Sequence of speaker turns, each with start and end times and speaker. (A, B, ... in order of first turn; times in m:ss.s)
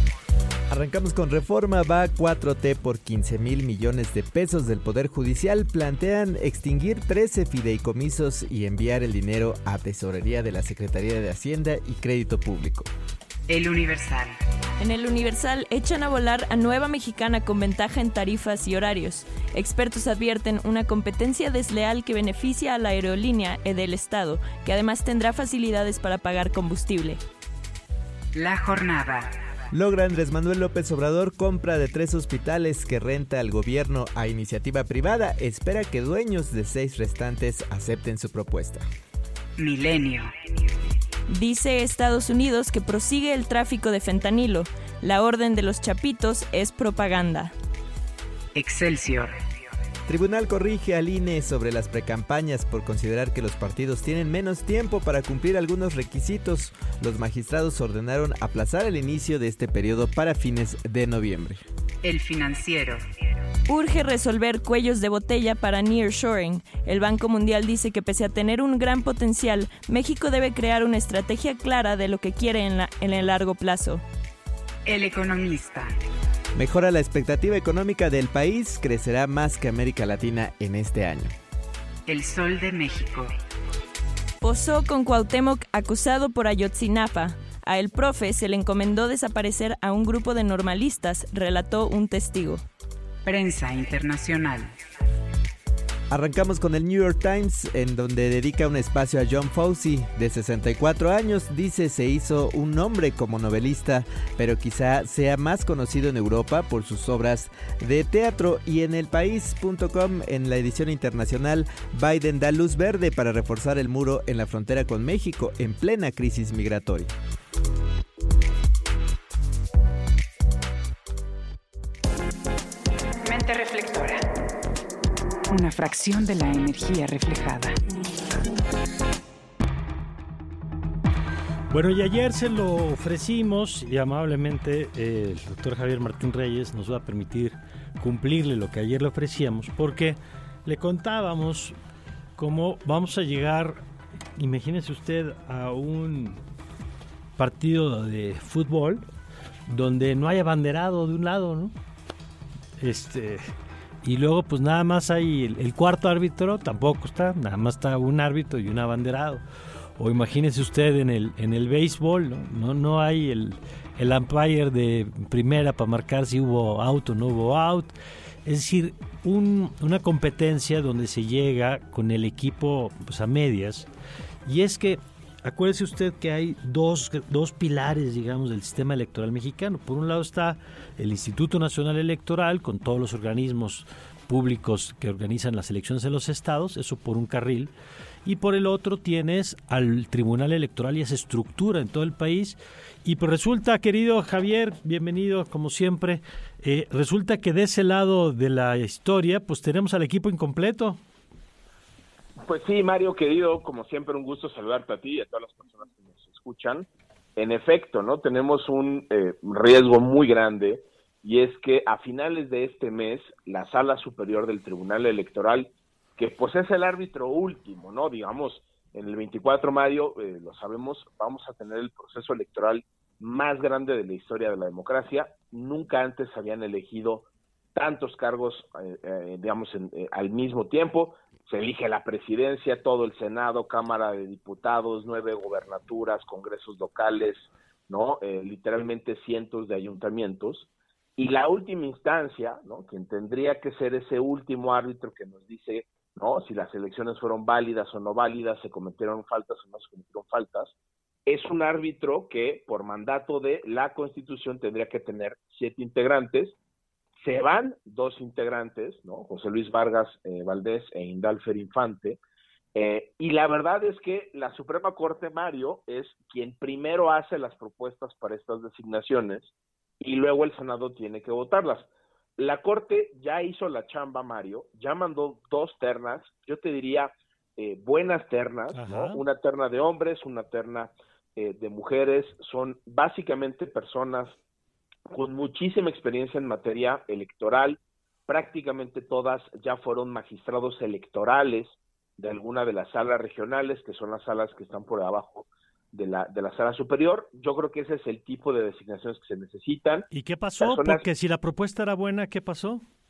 0:00.7-0:12.9 A
0:13.5-0:14.4 B
0:14.8-0:27.2 C
0:28.3-0:29.4 B
0:29.7-0:38.9 A
0:39.6-0:40.3 B
0:41.3-0:47.5 C
0:48.6-0:49.4 B
0:50.1-1:01.6 A
1:02.0-1:03.0 B
1:03.7-1:14.0 C
1:14.9-1:15.9 B
1:16.6-1:21.4 A
1:22.1-1:23.4 B
1:24.4-1:32.6 C
1:33.2-1:34.8 B
1:36.1-1:57.1 A
2:03.2-2:04.2 B
2:05.5-2:07.8 B
2:11.7-2:21.8 D
2:22.4-2:23.8 D
2:24.4-2:26.4 D
2:27.4-2:29.0 D
2:29.7-2:31.7 D
2:32.8-2:33.4 D
2:34.0-2:39.4 D
2:40.0-2:47.9 D
2:48.4-2:53.9 D
2:54.4-3:07.7 D
3:08.2-3:21.0 D
3:22.5-4:10.7 E
4:11.3-4:16.6 E
4:17.2-4:22.2 E
4:22.8-4:44.4 E
4:38.7-4:39.2 D
4:45.1-5:01.0 E
5:00.1-5:02.8 D